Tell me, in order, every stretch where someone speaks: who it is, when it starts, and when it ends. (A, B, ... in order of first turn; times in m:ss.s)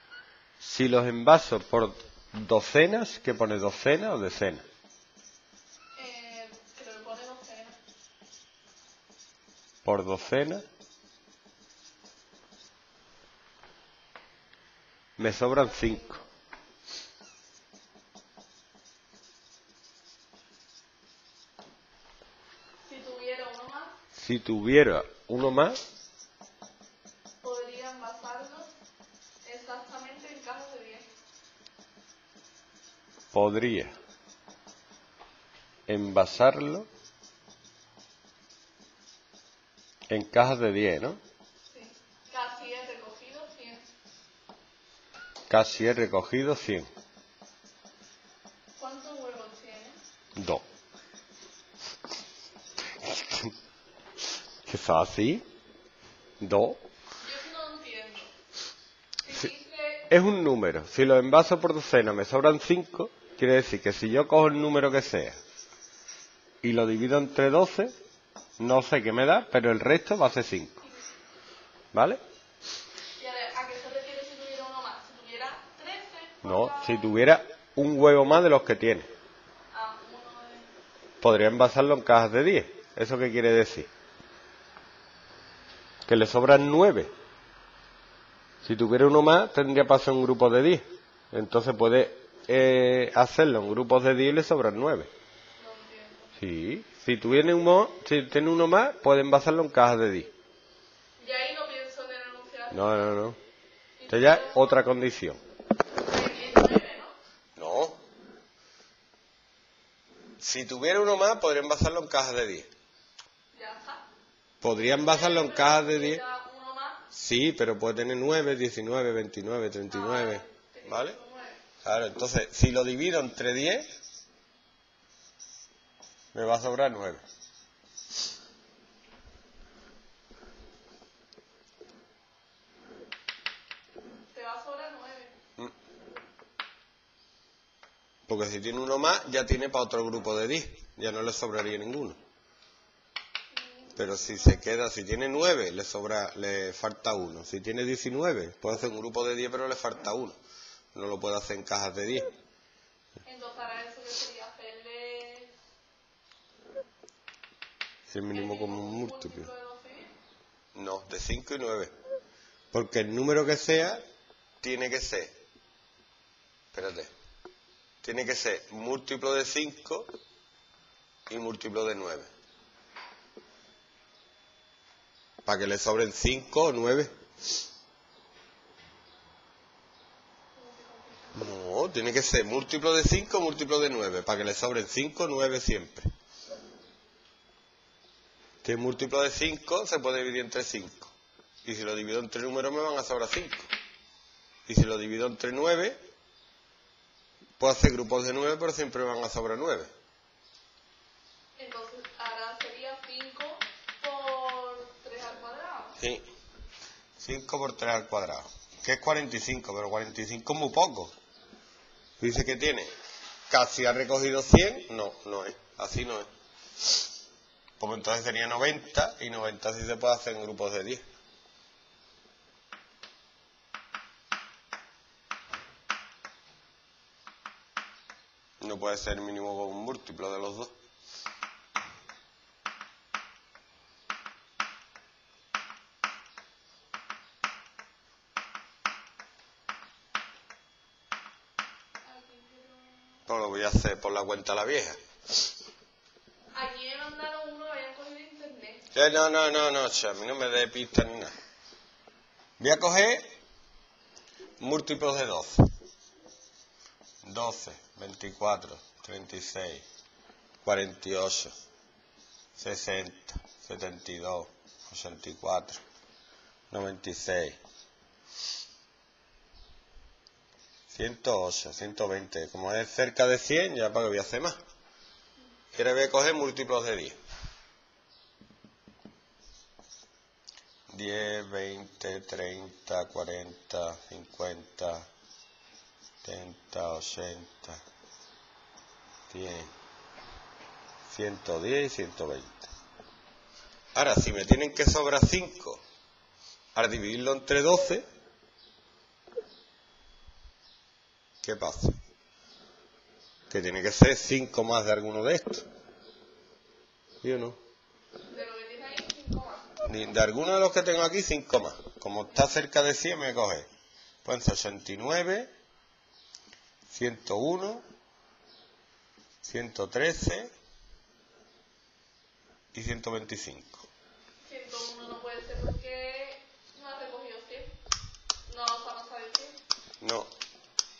0:00.6-0:04.6 A
0:06.0-0:07.8 B
0:09.8-0:10.6 A
0:15.2-0:16.2 A
0:22.9-0:24.0 B
0:24.2-0:25.8 A
0:27.4-0:28.7 B
0:29.4-0:31.1 B
0:33.3-0:34.0 A
0:35.9-0:36.9 A
0:40.1-0:41.2 A
0:41.7-0:43.9 B
0:45.5-0:46.9 A
0:48.8-0:50.0 B
0:50.4-0:50.6 A
0:53.0-0:53.5 A
0:54.6-0:55.4 A
0:56.4-0:56.8 A
0:57.2-0:58.3 B
0:59.2-1:00.1 B
1:00.1-1:05.4 A
1:06.6-1:07.9 A
1:08.6-1:10.8 A
1:11.9-1:12.2 A
1:13.2-1:17.2 B
1:16.4-1:19.1 A
1:19.7-1:20.7 B
1:21.2-1:23.9 A
1:26.1-1:27.1 A
1:28.6-1:35.1 A
1:35.6-1:36.3 B
1:36.4-1:40.3 A
1:41.2-1:43.0 B
1:42.7-1:43.4 A
1:44.0-1:44.8 B
1:44.1-1:45.4 A
1:46.0-1:47.2 B
1:47.6-1:48.0 A
1:50.4-1:52.7 A
1:53.5-1:54.0 B
1:54.6-1:56.2 A
1:54.9-1:57.0 B
1:57.1-2:01.2 A
1:59.9-2:01.6 B
2:01.8-2:03.9 A
2:06.3-2:07.2 A
2:14.3-2:15.4 B
2:18.3-2:22.2 A
2:23.5-2:24.6 B
2:24.0-2:30.4 A
2:30.9-2:32.3 A
2:33.2-2:35.5 B
2:38.1-2:39.5 A
2:38.3-2:40.1 B
2:40.8-2:41.9 A
2:42.7-2:44.0 A
2:44.6-2:45.3 A
2:46.7-2:47.1 A
2:48.0-2:50.1 A
2:51.3-2:52.3 A
2:55.5-2:57.1 A
3:00.6-3:01.5 B
3:01.3-3:06.1 A
3:08.6-3:13.7 A
3:14.7-3:16.0 A
3:17.6-3:19.9 A
3:21.6-3:26.0 B
3:26.0-3:26.2 A
3:27.2-3:31.1 A
3:32.2-3:32.9 A
3:33.5-3:36.3 A
3:37.8-3:41.0 A
3:48.6-3:50.7 A
4:02.0-4:03.2 B
4:03.3-4:05.0 A
4:06.5-4:08.9 B
4:08.9-4:11.3 A
4:12.6-4:13.2 A
4:14.6-4:15.6 A
4:17.2-4:19.8 A
4:20.6-4:21.5 A
4:22.6-4:25.8 A
4:26.7-4:27.6 A
4:30.9-4:34.6 A
4:35.7-4:37.2 A
4:40.9-4:45.1 A
4:46.2-4:47.8 A
4:49.3-4:49.7 A
4:51.1-4:52.7 A
4:54.0-4:55.8 A
4:56.8-4:58.0 A
5:01.4-5:02.0 A
5:03.5-5:05.6 A
5:07.2-5:07.6 A
5:08.2-5:09.8 B
5:09.8-5:13.7 A
5:14.2-5:15.5 A
5:16.9-5:17.8 A
5:19.4-5:20.5 A
5:22.7-5:23.9 A
5:24.4-5:27.7 B
5:28.5-5:29.6 B
5:30.0-5:30.3 A